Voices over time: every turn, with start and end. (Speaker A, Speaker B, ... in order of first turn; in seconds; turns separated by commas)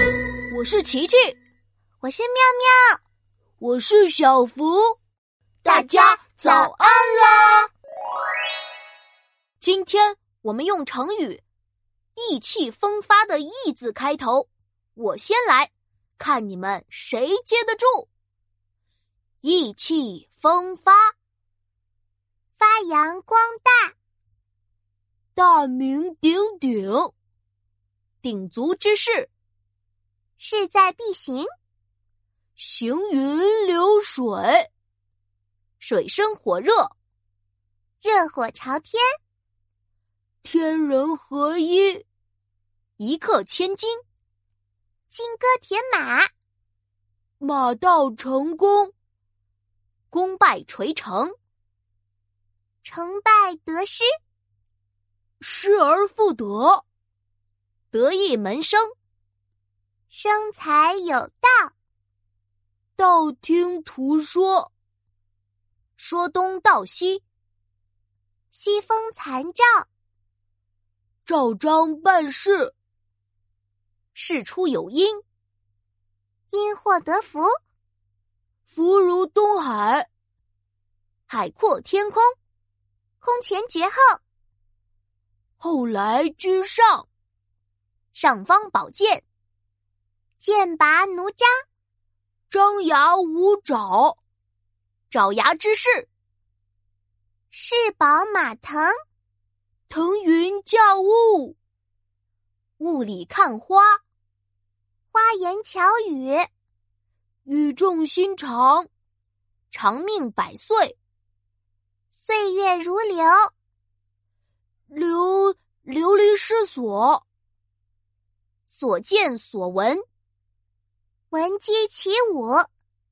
Speaker A: 0.5-1.4, Speaker B: 2.0-3.0, Speaker A: 3.6-5.0, Speaker A: 5.6-7.7, Speaker B: 5.7-6.7, Speaker A: 9.6-11.4, Speaker A: 12.2-18.1, Speaker A: 19.4-21.1, Speaker B: 22.6-23.9, Speaker A: 25.3-27.1, Speaker A: 28.2-29.3, Speaker B: 30.4-31.5, Speaker A: 32.6-34.7, Speaker A: 35.8-36.9, Speaker B: 38.0-39.0, Speaker A: 40.4-42.0, Speaker A: 43.0-44.0, Speaker B: 45.1-46.3, Speaker A: 47.4-48.9, Speaker A: 50.1-51.4, Speaker B: 52.8-54.1, Speaker A: 55.4-56.8, Speaker A: 57.9-58.9, Speaker B: 60.1-61.7, Speaker A: 63.0-64.7, Speaker A: 66.0-67.2, Speaker B: 68.5-69.9, Speaker A: 71.2-72.7, Speaker A: 74.1-75.2, Speaker B: 76.5-77.5, Speaker A: 78.7-80.1, Speaker A: 81.3-82.3, Speaker B: 83.2-84.2, Speaker A: 85.6-87.1, Speaker B: 88.1-89.2, Speaker B: 90.4-91.5, Speaker A: 92.5-94.2, Speaker A: 95.1-96.1, Speaker B: 97.5-98.9, Speaker A: 99.9-101.5, Speaker A: 102.8-104.0, Speaker B: 105.1-106.5, Speaker A: 107.5-108.9, Speaker A: 109.7-111.0, Speaker B: 112.1-113.5, Speaker A: 114.9-117.2, Speaker A: 118.7-120.0, Speaker B: 121.3-122.7